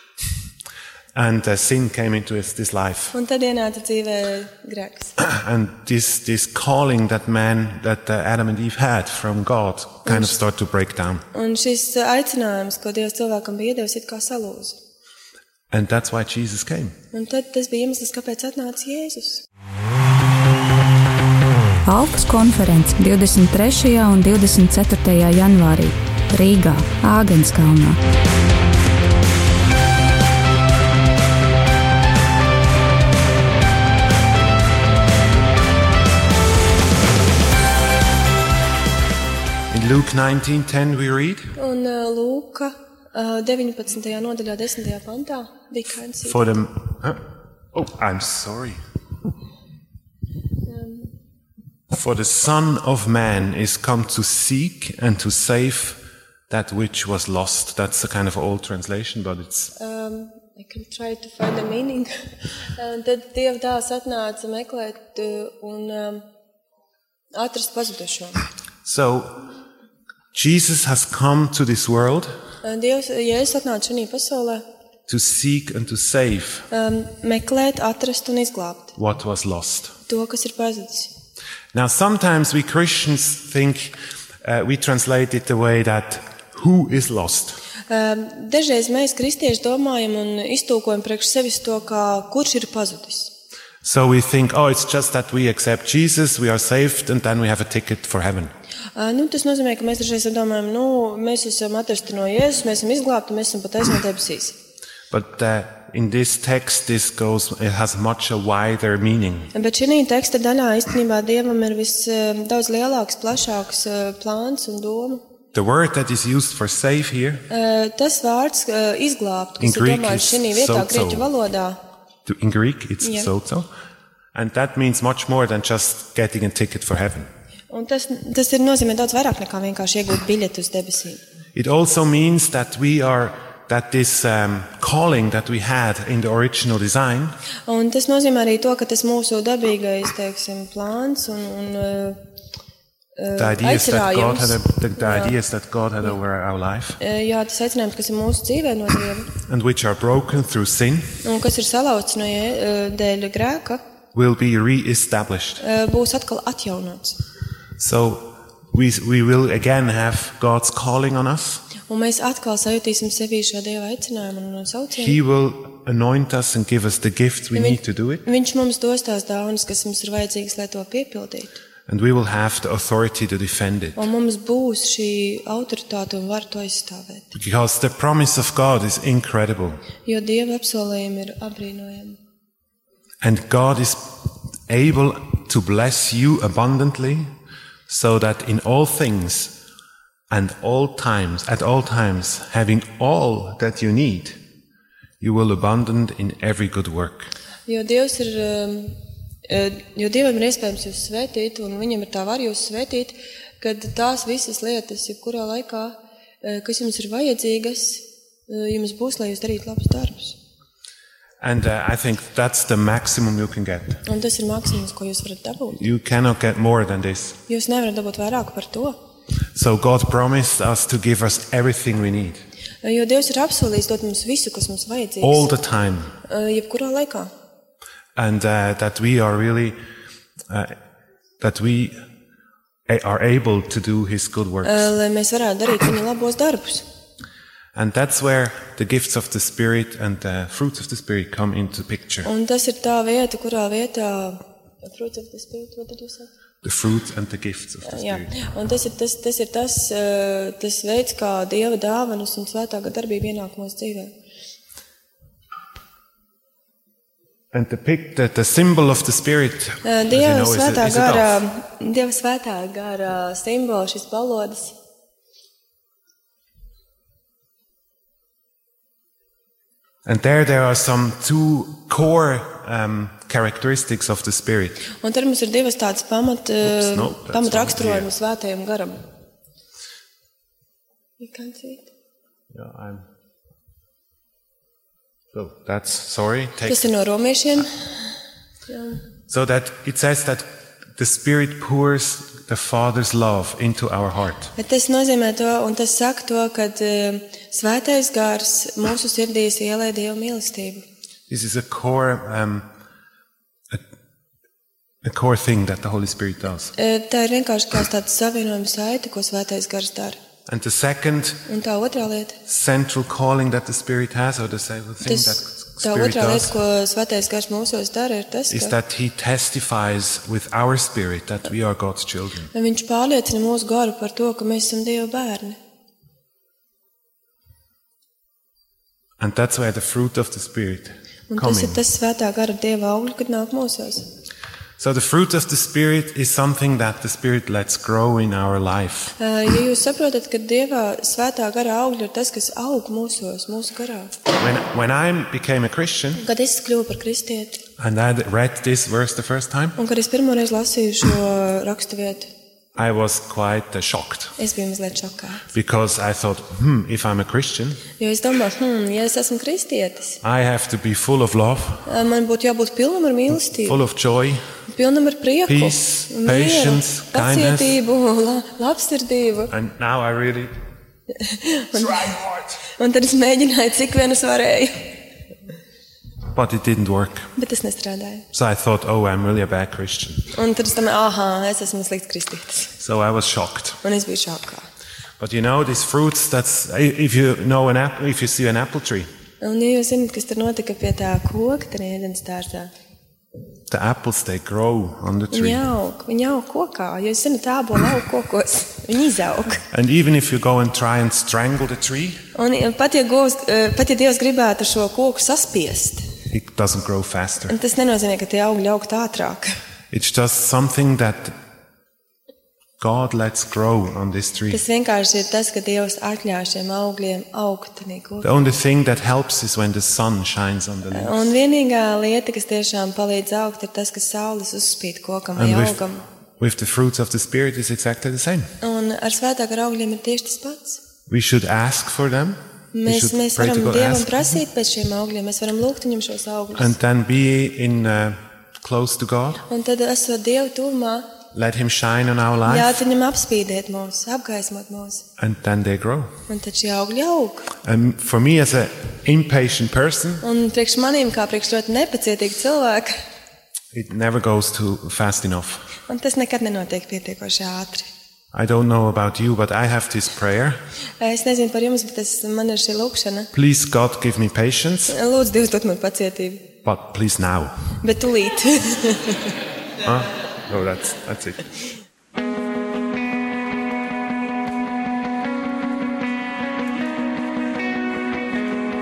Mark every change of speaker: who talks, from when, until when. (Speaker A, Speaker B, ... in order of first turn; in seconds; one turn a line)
Speaker A: 1.1-3.1
Speaker B: 3.1-5.1
Speaker A: 5.2-11.2
Speaker B: 10.1-10.4
Speaker B: 11.3-14.8
Speaker A: 15.7-17.0
Speaker B: 17.1-19.4
Speaker C: 21.9-28.0
Speaker A: 39.7-41.5
Speaker B: 41.6-46.5
Speaker A: 46.2-48.8
Speaker B: 50.7-51.1
Speaker A: 51.9-59.7
Speaker B: 59.8-66.3
Speaker B: 67.3-68.4
Speaker A: 68.8-69.4
Speaker A: 70.3-72.4
Speaker B: 72.6-74.7
Speaker A: 75.1-76.7
Speaker B: 76.7-79.0
Speaker A: 79.0-80.0
Speaker B: 80.1-81.1
Speaker A: 81.7-87.6
Speaker B: 87.9-93.3
Speaker A: 93.8-98.5
Speaker B: 99.0-104.6
Speaker A: 105.1-109.5
Speaker B: 109.5-115.2
Speaker A: 115.5-117.5
Speaker B: 117.5-121.8
Speaker A: 119.6-121.3
Speaker A: 122.3-123.7
Speaker B: 123.0-123.3
Speaker A: 124.3-127.3
Speaker B: 127.7-131.2
Speaker A: 131.6-137.4
Speaker B: 137.7-142.2
Speaker B: 143.2-145.3
Speaker A: 143.4-147.0
Speaker B: 147.0-149.3
Speaker A: 149.5-151.2
Speaker B: 151.2-153.8
Speaker A: 154.1-155.6
Speaker B: 155.6-157.2
Speaker A: 157.8-161.6
Speaker B: 161.9-165.2
Speaker A: 165.0-168.2
Speaker B: 167.6-171.6
Speaker A: 171.9-174.1
Speaker B: 174.0-177.3
Speaker A: 177.3-179.8
Speaker B: 180.1-182.2
Speaker A: 183.2-187.3
Speaker A: 187.9-189.5
Speaker A: 190.3-194.4
Speaker A: 195.2-197.3
Speaker B: 197.7-199.0
Speaker B: 199.5-210.4
Speaker A: 211.4-214.0
Speaker B: 214.1-215.8
Speaker A: 215.7-217.4
Speaker B: 217.5-219.0
Speaker A: 219.6-222.4
Speaker B: 222.8-225.5
Speaker A: 225.2-226.1
Speaker B: 226.2-227.3
Speaker A: 228.2-229.8
Speaker A: 230.5-230.8
Speaker A: 231.4-232.0
Speaker A: 232.9-234.9
Speaker B: 234.6-236.9
Speaker A: 237.8-242.3
Speaker B: 242.2-246.3
Speaker A: 246.6-248.3
Speaker B: 247.8-254.1
Speaker A: 257.5-261.4
Speaker B: 259.8-264.7
Speaker A: 270.1-274.8
Speaker B: 275.0-279.0
Speaker A: 276.6-278.1
Speaker B: 281.2-281.9
Speaker A: 282.5-283.1
Speaker A: 285.3-286.9
Speaker B: 286.7-287.8
Speaker B: 288.7-289.0
Speaker A: 289.3-294.5
Speaker B: 294.6-300.9
Speaker A: 301.3-302.7
Speaker A: 305.0-306.7
Speaker B: 306.8-310.2
Speaker A: 310.5-311.4
Speaker B: 311.5-312.4
Speaker A: 312.5-316.5
Speaker B: 315.0-318.8
Speaker A: 318.5-322.5
Speaker B: 322.5-325.6
Speaker A: 329.2-331.8
Speaker B: 331.3-334.1
Speaker A: 334.8-339.1
Speaker B: 339.2-344.1
Speaker A: 344.4-346.2
Speaker B: 346.2-347.6
Speaker A: 347.8-349.8
Speaker B: 349.8-352.3
Speaker A: 352.8-354.4
Speaker B: 354.4-355.4
Speaker A: 355.5-357.8
Speaker B: 358.0-360.2
Speaker A: 360.2-361.9
Speaker B: 361.9-363.8
Speaker A: 363.3-364.4
Speaker B: 364.7-369.5
Speaker A: 365.5-367.8
Speaker A: 369.5-370.5
Speaker B: 371.1-374.9
Speaker A: 372.0-372.5
Speaker A: 376.3-377.3
Speaker B: 377.4-378.3
Speaker A: 378.3-380.3
Speaker B: 380.3-382.7
Speaker A: 382.8-383.8
Speaker B: 383.8-384.7
Speaker A: 385.2-389.1
Speaker B: 389.4-392.7
Speaker A: 393.7-395.6
Speaker B: 395.3-399.6
Speaker A: 399.7-402.2
Speaker B: 402.4-406.1
Speaker A: 406.3-407.6
Speaker B: 407.5-409.5
Speaker A: 409.9-411.4
Speaker A: 412.8-414.6
Speaker B: 414.5-418.3
Speaker A: 418.2-421.4
Speaker B: 420.9-426.0
Speaker A: 425.4-425.8
Speaker A: 426.4-428.5
Speaker B: 428.6-430.8
Speaker A: 431.1-434.3
Speaker B: 432.7-436.7
Speaker A: 436.6-439.4
Speaker B: 439.5-441.1
Speaker A: 441.3-442.8
Speaker B: 442.5-445.1
Speaker A: 445.2-446.1
Speaker B: 446.3-447.5
Speaker A: 447.6-450.2
Speaker B: 450.2-453.0
Speaker A: 453.7-455.7
Speaker B: 455.9-457.9
Speaker A: 458.3-460.6
Speaker B: 461.0-463.3
Speaker A: 463.3-465.0
Speaker B: 464.9-466.5
Speaker A: 466.6-467.6
Speaker B: 467.8-469.4
Speaker A: 469.8-471.5